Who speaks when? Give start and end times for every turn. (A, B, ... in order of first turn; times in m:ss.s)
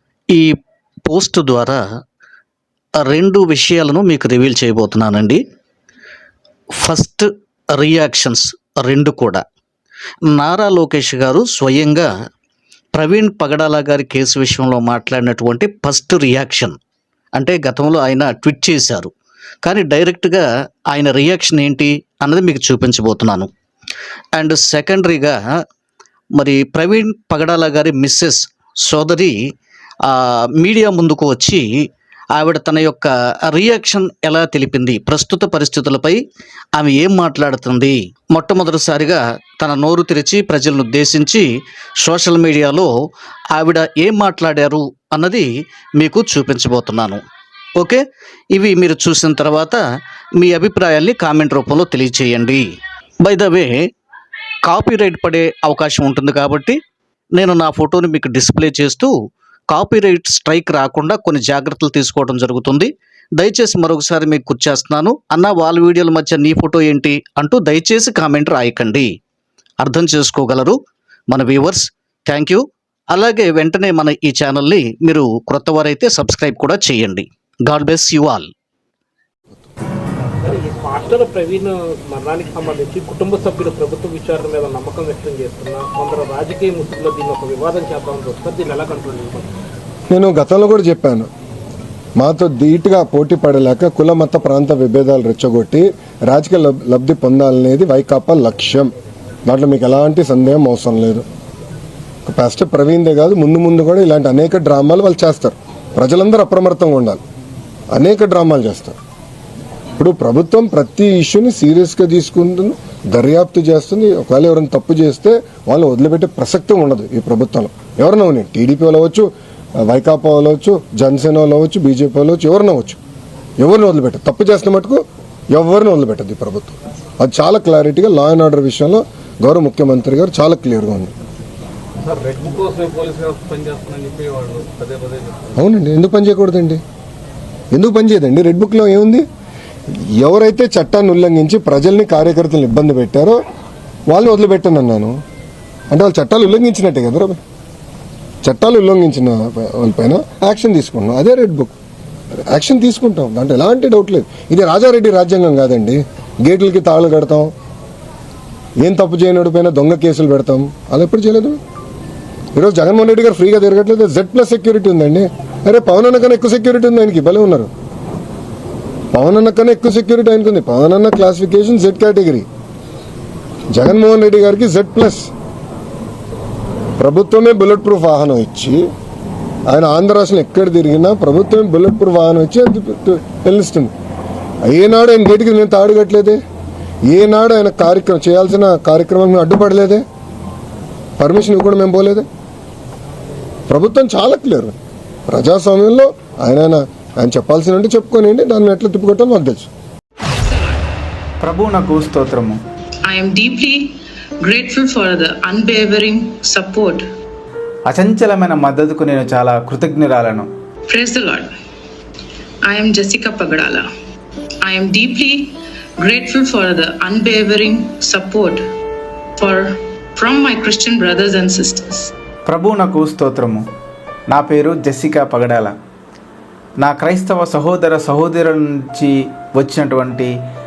0:01.1-0:01.8 A
0:03.0-0:05.4 A
0:06.8-0:09.4 A
0:10.3-0:12.1 A
0:12.9-0:16.8 A
0:17.3-0:19.1 A
0:19.6-0:23.5 A
0:24.4-0:25.4 A
0:26.4-0:29.4 A
0:30.1-0:31.7 A
0:32.3-0:36.2 A
0:36.8-0:41.5 A
0:42.0-0:42.9 A
0:43.5-0:47.2 A
0:47.8-0:49.8 A
0:50.4-0:52.7 A
0:53.2-0:53.8 A
0:54.6-0:56.8 A
0:57.4-0:59.1 A
0:59.7-1:09.1 A
1:09.8-1:10.8 A
1:11.3-1:18.5 A
1:20.6-1:21.5 B
1:22.2-1:23.1 B
1:25.6-1:26.9 B
1:28.0-1:29.4 B
1:30.1-1:31.3 C
1:32.2-1:38.9 C
1:39.5-1:41.2 C
1:42.2-1:47.2 C
1:47.9-1:49.0 C
1:50.0-1:59.3 C
1:59.8-2:03.0 C
2:03.6-2:11.1 C
2:12.1-2:15.4 B
2:15.6-2:16.8 C
2:17.7-2:19.2 C
2:20.2-2:23.4 C
2:24.1-2:25.2 C
2:25.9-2:27.4 C
2:28.4-2:31.7 C
2:32.5-2:37.5 C
2:38.8-2:41.6 C
2:42.5-2:47.7 C
2:49.1-2:52.4 C
2:53.7-2:55.3 C
2:57.0-2:58.8 C
2:59.7-3:03.9 C
3:04.6-3:06.4 C
3:07.1-3:10.0 C
3:11.2-3:12.3 C
3:13.7-3:14.7 C
3:15.3-3:19.7 C
3:21.4-3:22.6 D
3:23.1-3:27.0 E
3:27.9-3:30.5 D
3:30.9-3:31.5 E
3:32.7-3:33.8 E
3:34.6-3:38.6 E
3:39.4-3:42.1 E
3:42.5-3:43.6 D
3:44.3-3:45.7 D
3:46.8-3:50.3 D